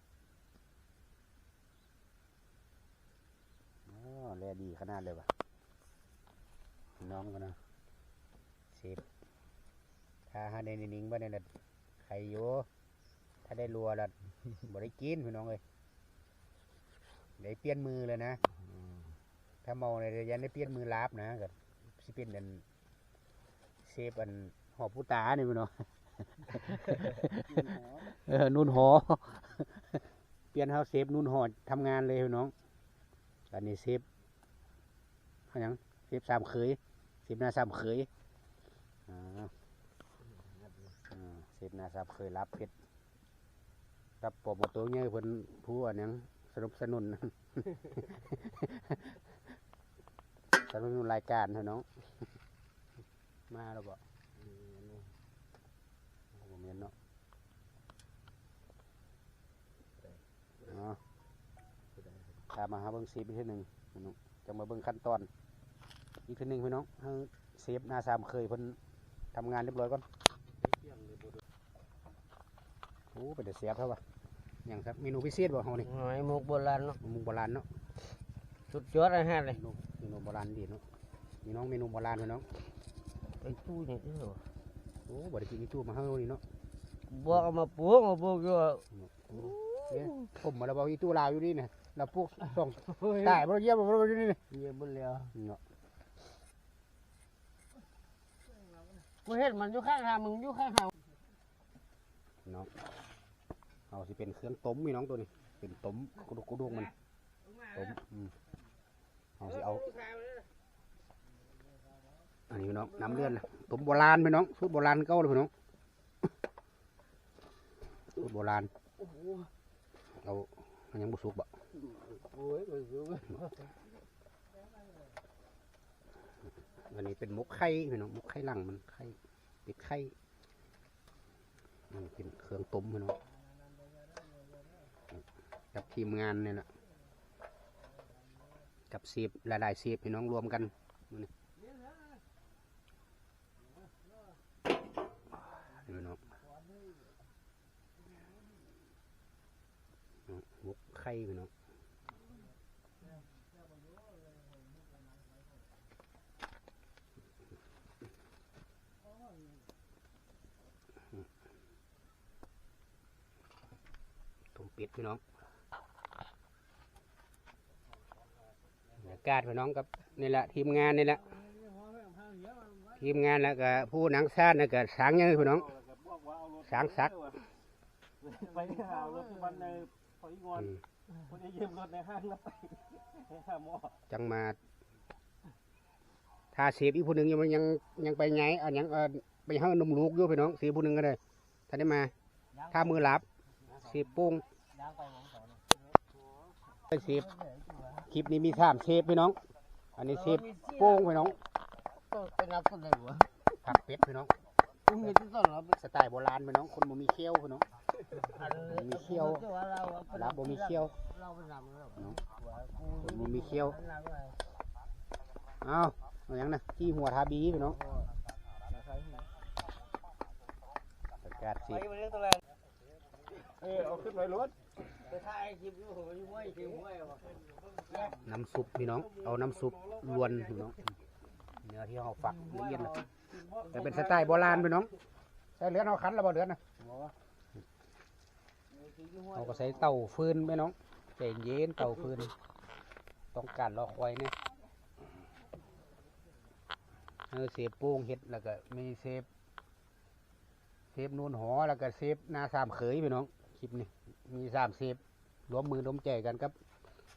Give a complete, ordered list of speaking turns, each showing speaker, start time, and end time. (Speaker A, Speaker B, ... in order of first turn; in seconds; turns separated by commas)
Speaker A: 3.9-5.3, Speaker A: 7.0-7.6, Speaker A: 8.7-9.0, Speaker A: 10.3-11.5, Speaker A: 12.0-12.7, Speaker A: 13.4-14.1, Speaker A: 14.7-15.6, Speaker A: 17.4-18.4, Speaker A: 19.6-22.6, Speaker A: 23.8-30.0, Speaker B: 27.6-28.0, Speaker A: 30.5-32.5, Speaker A: 33.5-34.0, Speaker A: 35.5-38.1, Speaker A: 39.1-39.5, Speaker A: 41.1-42.7, Speaker A: 44.2-49.1, Speaker A: 50.5-52.2, Speaker A: 53.5-54.0, Speaker C: 54.4-55.0, Speaker A: 56.3-56.9, Speaker A: 60.7-61.0, Speaker A: 62.5-65.3, Speaker A: 66.2-68.8, Speaker A: 69.3-70.0, Speaker A: 73.1-74.0, Speaker A: 74.6-75.9, Speaker C: 75.8-77.0, Speaker A: 77.0-77.7, Speaker C: 78.7-79.6, Speaker A: 79.5-80.8, Speaker A: 81.4-82.5, Speaker C: 83.4-84.4, Speaker A: 85.1-86.4, Speaker C: 87.1-90.3, Speaker A: 88.9-94.4, Speaker C: 92.9-93.4, Speaker C: 94.5-95.3, Speaker A: 95.3-95.6, Speaker C: 99.2-100.9, Speaker A: 102.5-102.7, Speaker A: 103.9-106.9, Speaker A: 107.7-108.3, Speaker A: 109.4-109.9, Speaker C: 110.0-110.4, Speaker A: 112.5-115.5, Speaker A: 118.2-118.7, Speaker C: 119.0-119.5, Speaker A: 120.2-121.5, Speaker C: 122.0-123.5, Speaker A: 126.9-129.1, Speaker A: 129.7-130.1, Speaker A: 131.9-133.2, Speaker A: 135.7-136.7, Speaker A: 138.9-141.3, Speaker A: 145.7-146.2, Speaker A: 150.3-151.5, Speaker A: 164.5-165.2, Speaker A: 169.0-171.2, Speaker A: 173.0-175.7, Speaker B: 175.7-177.4, Speaker A: 176.7-177.1, Speaker B: 178.2-180.7, Speaker B: 181.2-184.0, Speaker A: 184.1-184.6, Speaker A: 186.5-192.1, Speaker A: 192.7-193.2, Speaker A: 193.8-194.4, Speaker A: 196.9-197.3, Speaker C: 196.9-198.0, Speaker A: 198.1-199.4, Speaker A: 200.0-201.4, Speaker C: 200.1-201.1, Speaker C: 202.1-203.3, Speaker A: 203.6-204.3, Speaker C: 204.9-205.8, Speaker A: 205.8-207.6, Speaker C: 208.2-214.4, Speaker A: 208.7-209.5, Speaker A: 210.1-210.9, Speaker A: 213.0-213.8, Speaker A: 215.6-217.8, Speaker C: 217.8-218.1, Speaker A: 221.2-221.9, Speaker B: 223.5-224.5, Speaker C: 225.0-227.3, Speaker C: 227.9-228.1, Speaker A: 228.2-230.8, Speaker A: 231.6-233.0, Speaker B: 233.6-234.2, Speaker A: 233.7-234.9, Speaker A: 235.6-236.6, Speaker A: 239.3-242.3, Speaker A: 243.3-244.3, Speaker A: 247.3-249.3, Speaker A: 250.9-256.5